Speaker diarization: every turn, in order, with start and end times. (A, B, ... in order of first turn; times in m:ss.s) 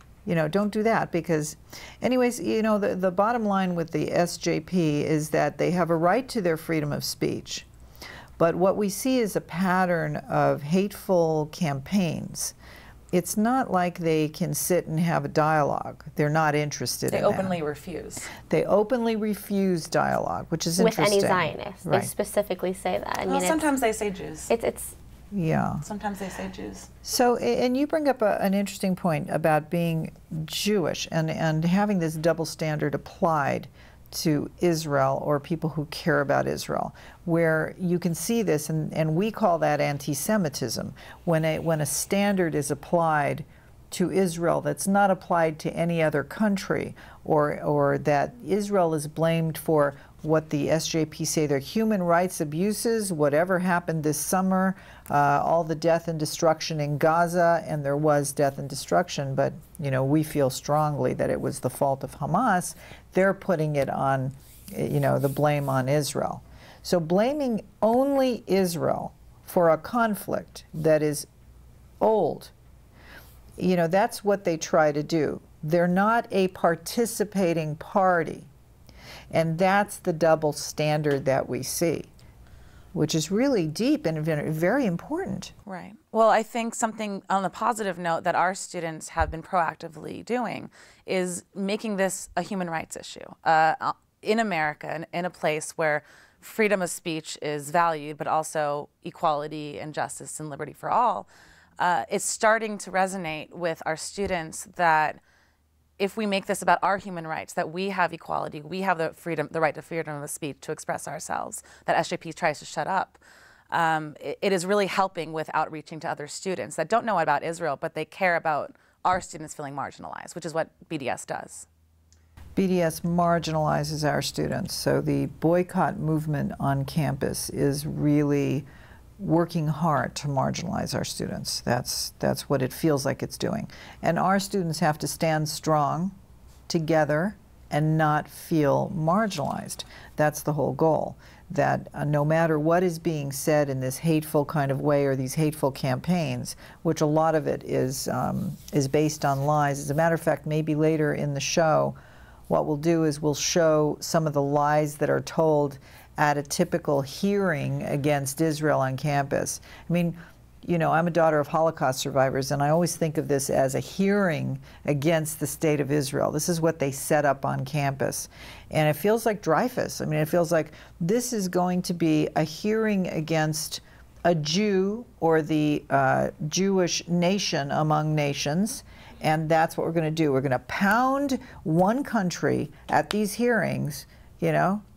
0:00.2-0:07.7 A
0:08.4-0:12.5 A
0:13.1-0:17.6 A
0:17.1-0:18.3 B
0:18.4-0:22.1 A
0:20.8-0:23.7 C
0:23.2-0:24.5 B
0:24.5-0:25.0 C
0:25.3-0:25.8 A
0:25.8-0:26.9 B
0:27.0-1:11.3 A
1:12.0-1:12.5 A
1:13.6-1:18.5 A
1:19.3-1:22.1 A
1:22.9-1:25.5 A
1:25.6-1:45.2 B
1:46.0-1:53.2 B
1:53.7-2:01.7 B
2:02.6-2:08.7 A
2:09.2-2:16.1 A
2:16.7-2:32.0 A
2:32.5-3:04.8 A